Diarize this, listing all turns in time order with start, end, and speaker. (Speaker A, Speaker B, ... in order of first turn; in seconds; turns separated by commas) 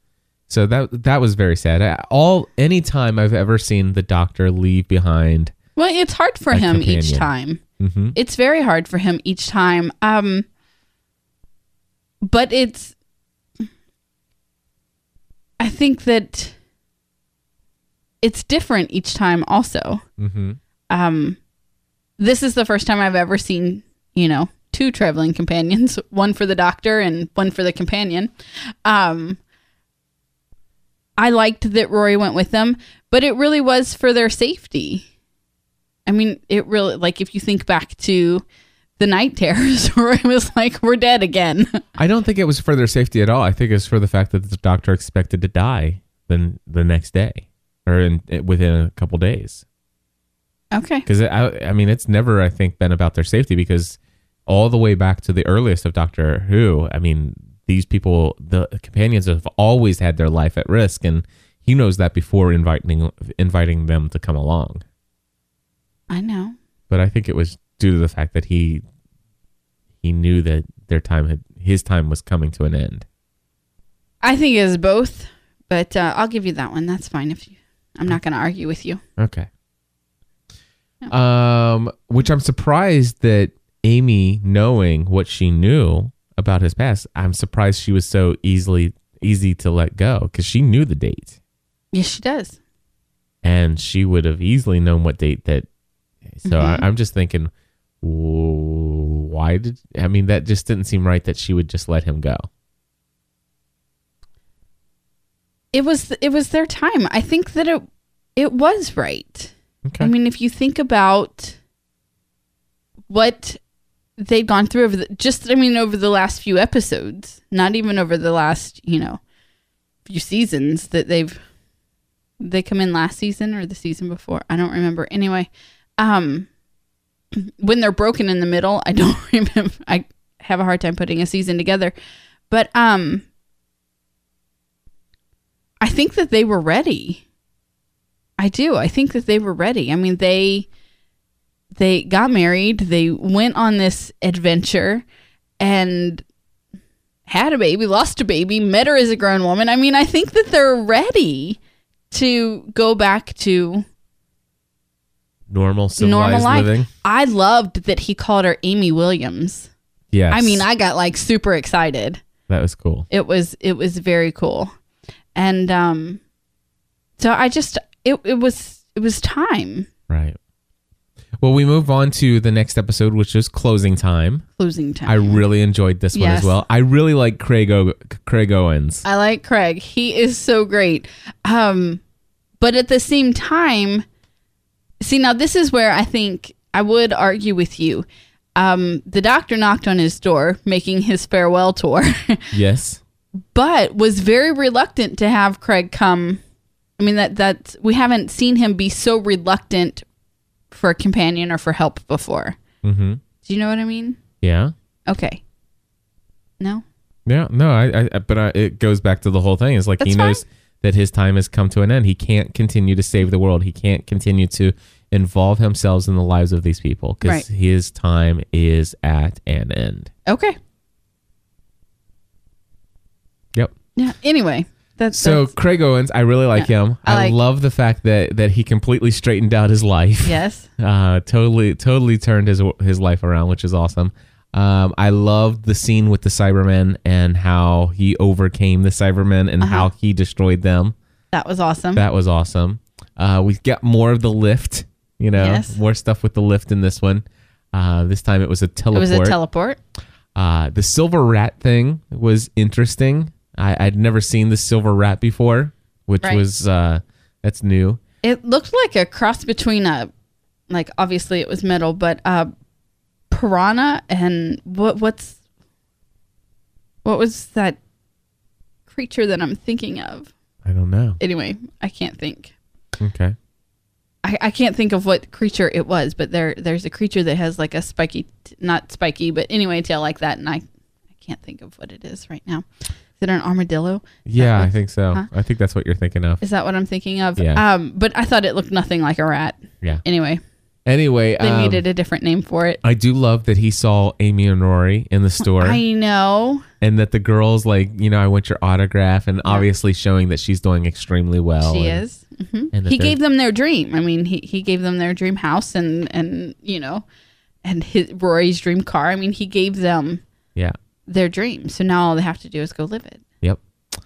Speaker A: 0.5-5.5, Speaker B: 5.8-7.6, Speaker A: 6.5-8.2, Speaker B: 8.2-10.5, Speaker B: 12.2-12.9, Speaker B: 15.6-16.6, Speaker B: 18.2-20.0, Speaker A: 20.2-20.6, Speaker B: 20.9-21.4, Speaker B: 22.2-29.4, Speaker B: 31.2-35.1, Speaker B: 36.1-38.5, Speaker B: 39.0-41.8, Speaker A: 42.0-49.6, Speaker B: 50.7-51.1, Speaker A: 51.0-64.8, Speaker B: 66.1-66.6, Speaker A: 66.9-68.8, Speaker A: 70.0-73.0, Speaker B: 74.2-79.0, Speaker A: 79.2-79.5, Speaker A: 81.1-91.4, Speaker B: 91.9-92.6, Speaker A: 93.4-95.7, Speaker A: 96.3-102.5, Speaker B: 96.5-96.8, Speaker B: 105.7-107.8, Speaker B: 108.4-111.6, Speaker A: 109.8-110.1, Speaker B: 113.1-113.6, Speaker B: 114.2-119.2, Speaker B: 120.1-121.4, Speaker B: 122.4-126.5, Speaker B: 127.3-131.9, Speaker B: 132.5-133.2, Speaker B: 135.8-137.2, Speaker B: 138.4-140.7, Speaker B: 141.8-145.1, Speaker B: 145.6-146.2, Speaker B: 147.3-151.6, Speaker B: 152.1-153.9, Speaker A: 155.5-156.9, Speaker B: 156.0-159.7, Speaker A: 160.1-160.7, Speaker B: 160.3-162.2, Speaker A: 162.5-163.1, Speaker B: 163.1-164.7, Speaker B: 165.3-166.2, Speaker B: 167.2-169.9, Speaker A: 170.1-170.4, Speaker A: 171.4-174.4, Speaker B: 174.6-175.4, Speaker A: 175.1-179.0, Speaker B: 176.1-176.6, Speaker B: 179.0-182.0, Speaker B: 182.6-184.1, Speaker B: 185.0-192.5, Speaker A: 192.5-193.0, Speaker B: 193.5-196.4, Speaker B: 197.0-200.1, Speaker B: 200.7-202.6, Speaker A: 202.8-203.2, Speaker B: 203.4-204.2, Speaker A: 204.4-204.7, Speaker B: 205.1-205.4, Speaker B: 206.6-206.8, Speaker A: 207.3-220.1, Speaker B: 210.0-210.4, Speaker B: 220.3-220.6, Speaker B: 224.0-225.5, Speaker A: 225.1-240.9, Speaker B: 226.6-227.4, Speaker B: 230.2-230.7, Speaker B: 239.6-239.9, Speaker B: 241.3-242.0, Speaker A: 241.9-249.4, Speaker B: 245.4-245.8, Speaker B: 248.9-249.8, Speaker A: 250.3-258.0, Speaker B: 258.2-260.1, Speaker B: 260.7-262.5, Speaker B: 263.3-265.4, Speaker B: 267.0-267.8, Speaker B: 268.9-270.3, Speaker A: 270.6-271.2, Speaker B: 271.2-272.5, Speaker A: 273.0-273.4, Speaker B: 274.2-280.6, Speaker B: 281.2-282.7, Speaker B: 283.2-285.3, Speaker A: 284.2-286.4, Speaker B: 286.4-290.4, Speaker A: 287.4-287.6, Speaker A: 290.9-291.9, Speaker B: 291.4-292.8, Speaker A: 292.8-295.8, Speaker B: 295.4-296.7, Speaker A: 296.8-302.0, Speaker B: 301.6-307.1, Speaker A: 302.7-303.2, Speaker B: 307.6-310.2, Speaker B: 311.1-313.2